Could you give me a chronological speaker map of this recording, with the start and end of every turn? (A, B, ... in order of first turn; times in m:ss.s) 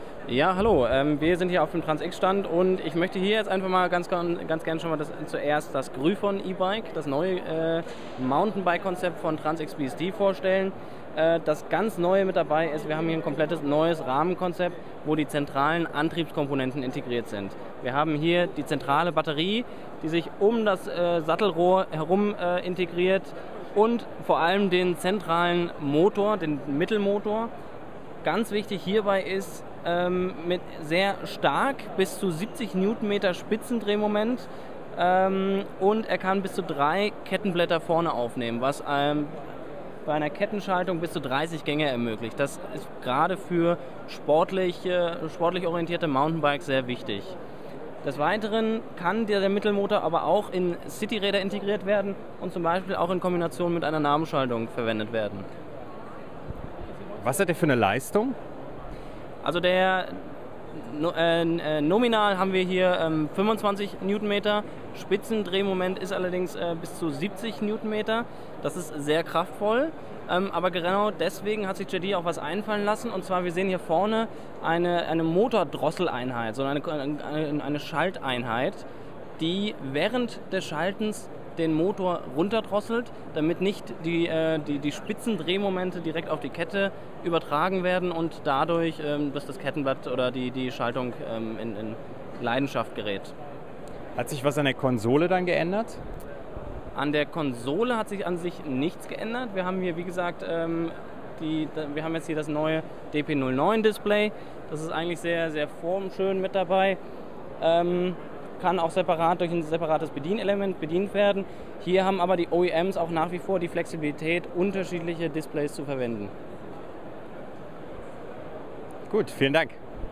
0:00.3-0:27.5 A
0:28.2-0:39.4 A
0:40.0-0:47.3 A
0:48.0-0:55.5 A
0:57.2-0:58.4 B
0:59.4-1:00.2 A
1:00.7-1:18.8 A
1:19.4-1:33.3 A
1:34.2-1:36.0 B
1:37.0-1:47.0 A
1:47.6-1:56.3 A
1:59.1-1:59.8 B